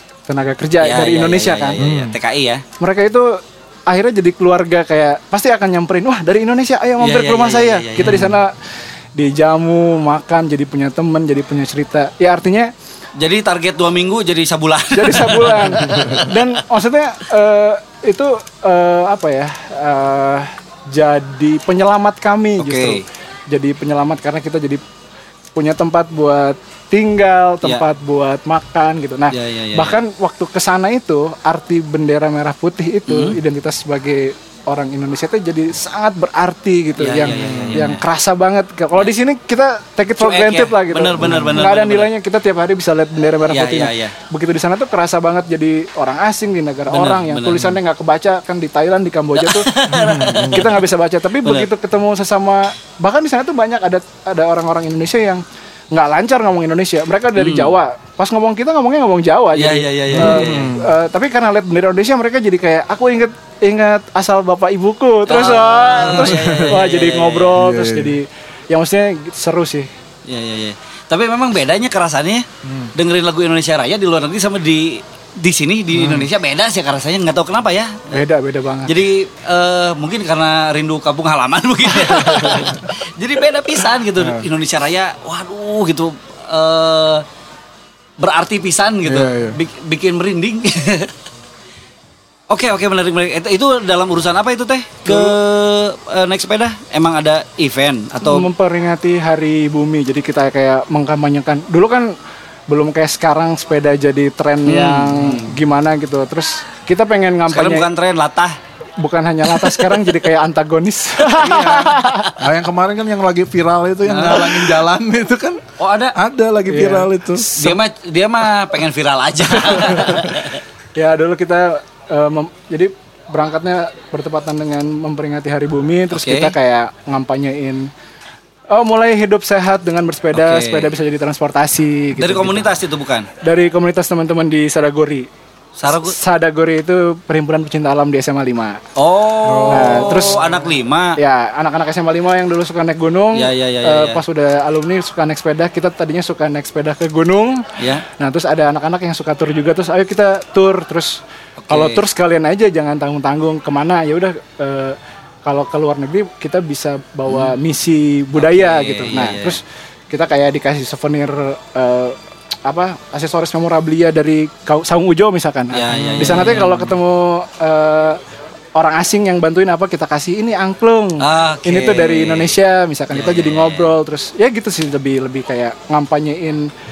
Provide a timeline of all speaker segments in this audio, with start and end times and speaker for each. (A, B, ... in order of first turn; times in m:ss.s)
0:00.3-0:01.8 A
0:00.8-0:02.6 B
0:01.8-0:02.2 C
0:02.8-0:08.5 A
0:07.0-0:08.2 B
0:08.0-0:08.4 C
0:09.2-0:12.7 A
0:13.2-0:16.3 B
0:14.9-0:24.8 A
0:15.9-0:16.2 C
0:22.6-0:23.0 B
0:25.5-0:49.7 A
0:29.3-0:30.0 B
0:33.1-0:33.4 B
0:37.0-0:38.0 B
0:37.3-0:37.9 C
0:40.2-0:42.1 B
0:41.2-0:41.7 C
0:43.5-0:44.1 B
0:46.9-0:47.7 B
0:49.4-0:50.8 B
0:49.9-0:50.7 C
0:50.4-1:09.9 A
0:57.4-0:57.7 B
0:59.5-1:00.7 B
1:00.1-1:00.9 C
1:05.3-1:07.6 B
1:06.0-1:06.8 C
1:07.6-1:08.2 C
1:10.3-1:18.1 B
1:12.6-1:12.9 C
1:15.9-1:16.3 C
1:18.1-1:18.9 A
1:18.8-1:27.2 B
1:22.3-1:22.7 C
1:24.2-1:24.4 C
1:28.2-1:31.1 B
1:29.0-1:29.6 C
1:32.5-1:38.5 B
1:35.1-1:35.3 A
1:38.2-1:42.1 A
1:42.7-1:47.9 A
1:44.6-1:45.5 B
1:47.5-1:48.6 B
1:49.0-1:52.3 A
1:49.6-1:50.0 B
1:51.3-1:55.6 C
1:54.0-1:54.8 B
1:55.8-1:56.2 B
1:56.1-1:57.6 C
1:56.7-1:57.8 A
1:57.5-2:00.6 B
2:01.0-2:07.9 A
2:06.1-2:06.5 B
2:08.7-2:12.8 A
2:10.3-2:10.9 B
2:12.2-2:13.3 B
2:13.4-2:15.3 A
2:15.8-2:16.1 B
2:15.9-2:18.8 A
2:19.0-2:21.2 B
2:19.4-2:20.5 C
2:19.7-2:20.4 A
2:21.2-2:48.2 A
2:23.3-2:24.2 B
2:27.8-2:28.0 B
2:31.6-2:32.0 B
2:38.4-2:39.6 B
2:45.7-2:46.9 B
2:45.9-2:46.7 C
2:48.7-2:56.7 A
2:51.2-2:52.6 B
2:53.1-2:53.9 B